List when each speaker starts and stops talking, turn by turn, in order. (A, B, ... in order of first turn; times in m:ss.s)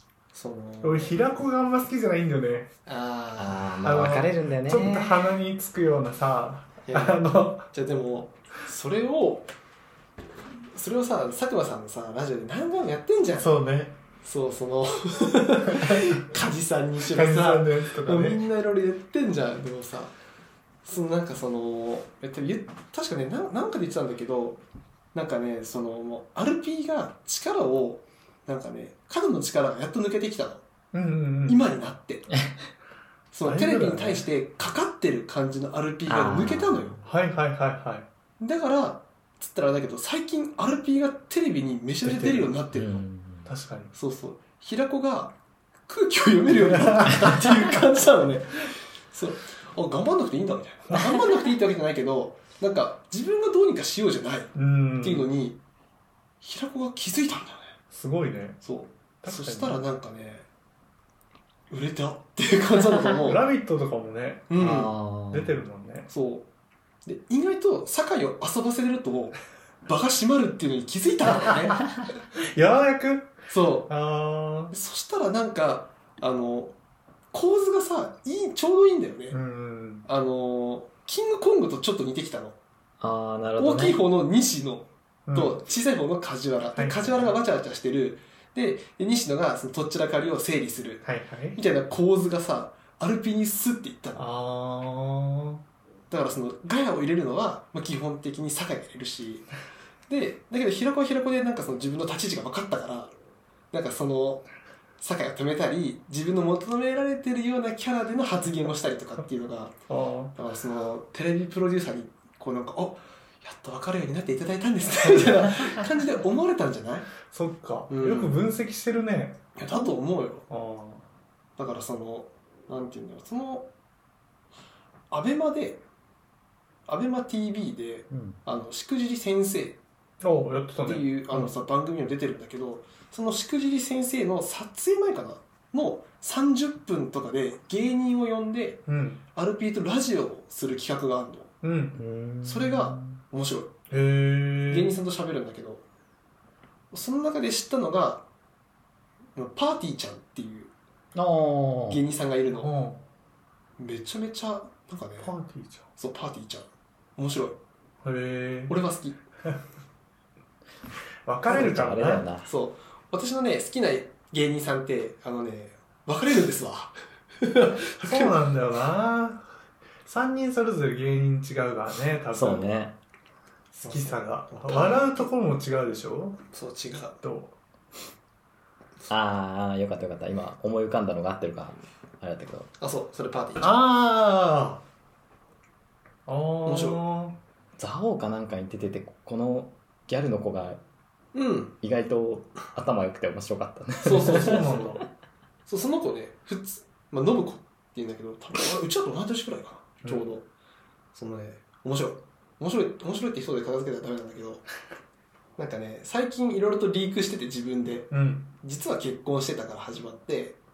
0:00.3-0:01.3 A
0:00.8-0:02.7 B
0:02.9-0:03.9 A
0:03.4-0:05.3 C
0:03.8-0:07.7 B
0:06.8-0:09.5 A
0:10.7-0:13.5 A
0:13.4-0:14.0 B
0:14.2-0:20.2 A
0:15.7-0:16.2 B
0:17.0-0:18.4 B
0:20.8-0:24.6 A
0:25.1-0:30.6 A
0:30.9-0:31.6 B
0:31.5-0:32.3 A
0:33.3-0:37.0 A
0:33.4-0:34.3 B
0:36.1-0:37.0 C
0:37.0-0:38.1 B
0:38.4-0:43.0 A
0:42.0-0:42.6 B
0:42.7-0:43.5 C
0:43.5-0:43.9 B
0:44.0-0:55.6 A
0:46.5-0:47.4 B
0:54.6-0:55.3 B
0:56.4-0:57.8 A
0:57.9-0:58.6 B
0:58.6-1:00.5 A
0:59.2-0:59.8 B
1:01.7-1:03.4 A
1:03.2-1:04.8 B
1:04.5-1:04.9 A
1:04.6-1:05.5 C
1:05.3-1:06.1 B
1:06.1-1:06.5 A
1:07.0-1:11.9 A
1:11.5-1:11.7 B
1:12.3-1:14.7 B
1:13.5-1:13.9 A
1:14.7-1:16.7 A
1:17.3-1:19.4 A
1:19.3-1:20.1 B
1:20.0-1:22.6 A
1:23.0-1:24.0 C
1:23.6-1:34.2 A
1:25.3-1:25.6 B
1:26.7-1:27.4 B
1:31.0-1:31.6 B
1:34.2-1:35.6 B
1:36.1-1:39.5 A
1:40.1-1:43.1 A
1:43.7-1:44.5 A
1:45.0-1:49.8 A
1:49.9-1:50.4 B
1:50.4-1:57.1 A
1:55.0-1:55.7 B
1:57.2-1:59.5 B
1:57.9-1:58.4 A
1:59.6-2:00.5 A
2:00.5-2:01.1 B
2:01.6-2:03.7 A
2:05.1-2:05.8 A
2:06.9-2:09.8 A
2:08.1-2:08.4 C
2:10.2-2:11.5 B
2:10.8-2:18.8 A
2:18.9-2:19.2 B
2:19.3-2:21.5 A
2:21.6-2:22.0 B
2:22.0-2:23.2 C
2:22.4-2:23.7 A
2:23.9-2:25.0 B
2:24.7-2:25.8 A
2:26.9-2:28.3 A
2:29.4-2:30.7 A
2:31.2-2:32.0 C
2:31.9-2:32.7 A
2:32.6-2:33.0 B
2:33.8-2:35.3 A
2:35.2-2:35.9 B
2:36.0-2:37.6 A
2:38.0-2:38.8 B
2:38.7-2:39.2 A
2:41.2-2:42.3 B
2:41.5-2:42.5 C
2:42.4-2:48.4 A
2:48.0-2:49.5 B
2:50.0-2:52.7 B
2:52.3-2:53.0 C
2:53.7-2:55.2 A
2:53.8-2:56.4 B
2:56.5-2:57.2 A
2:57.2-2:57.6 B
2:59.1-3:02.7 C
3:02.8-3:03.7 A
3:03.6-3:04.8 B
3:06.3-3:07.4 B
3:06.6-3:07.0 A
3:07.8-3:10.8 C
3:11.3-3:11.8 A
3:11.8-3:14.6 C
3:14.0-3:14.9 A
3:14.3-3:15.0 B
3:15.7-3:20.5 A
3:20.0-3:20.3 B
3:21.1-3:24.7 A
3:25.6-3:30.6 A
3:28.1-3:28.5 B